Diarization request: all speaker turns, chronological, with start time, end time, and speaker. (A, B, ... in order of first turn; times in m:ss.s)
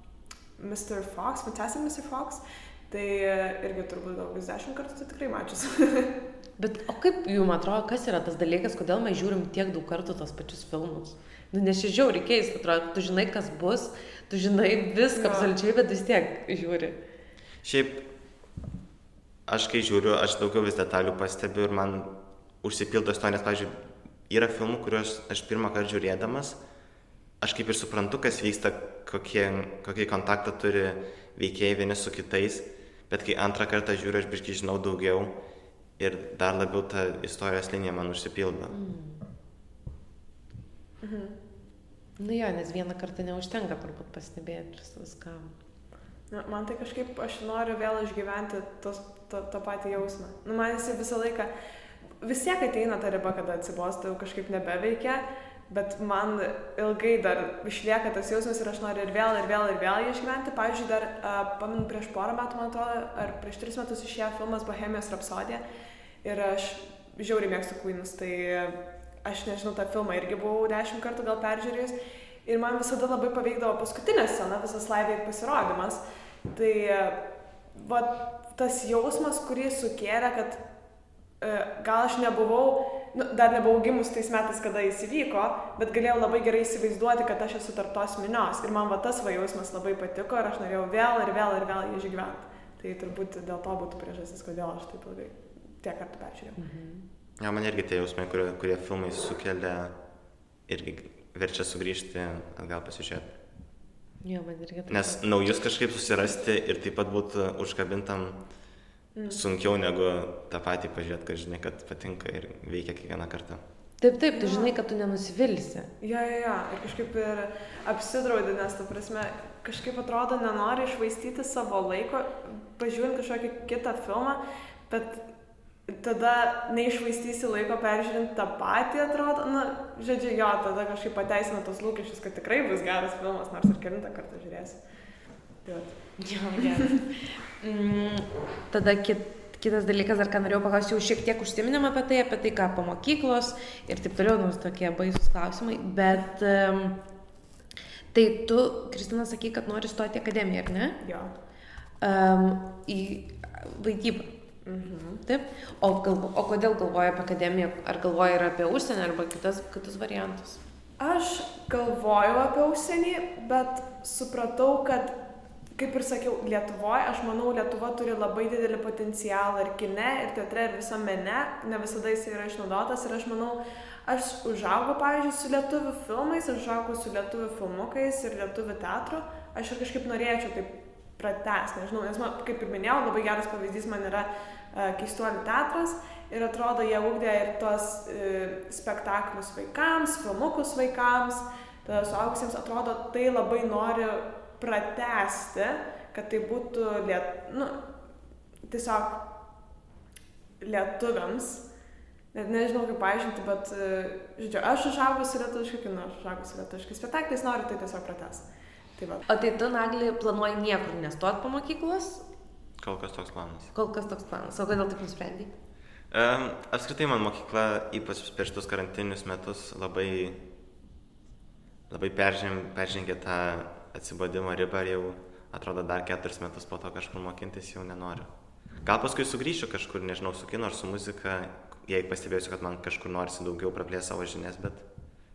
0:00.6-0:06.2 A
0:06.6-0:17.0 B
0:15.1-0:15.5 A
0:17.6-0:18.1 C
0:19.5-0:23.8 C
0:24.3-0:26.6 C
0:27.4-0:35.4 C
0:36.0-0:38.7 C
0:38.7-0:39.2 B
0:41.0-0:41.4 A
0:42.2-0:45.6 B
0:46.3-0:51.5 A
0:52.2-1:05.6 A
1:06.2-1:17.2 A
1:17.7-1:20.6 A
1:21.4-1:36.6 A
1:36.6-1:37.0 B
1:37.4-1:40.0 C
1:40.7-1:43.3 C
1:44.2-1:45.6 B
1:44.9-1:48.4 C
1:49.2-1:49.4 A
1:49.3-1:53.6 C
1:54.0-1:55.9 B
1:54.3-1:54.7 A
1:56.0-2:05.3 A
2:05.9-2:14.8 A
2:15.6-2:16.0 A
2:16.2-2:27.0 B
2:28.1-2:31.0 B
2:31.0-2:31.3 A
2:32.0-2:34.3 B
2:34.6-2:35.2 A
2:35.2-2:40.6 B
2:41.0-2:45.2 A
2:45.8-3:17.8 A
3:18.7-3:19.3 A
3:20.6-3:21.6 A
3:22.3-3:29.2 A
3:29.3-3:32.2 B
3:32.8-3:33.7 C
3:33.7-3:35.5 B
3:36.1-3:40.4 C
3:41.9-3:48.3 C
3:48.8-3:54.9 C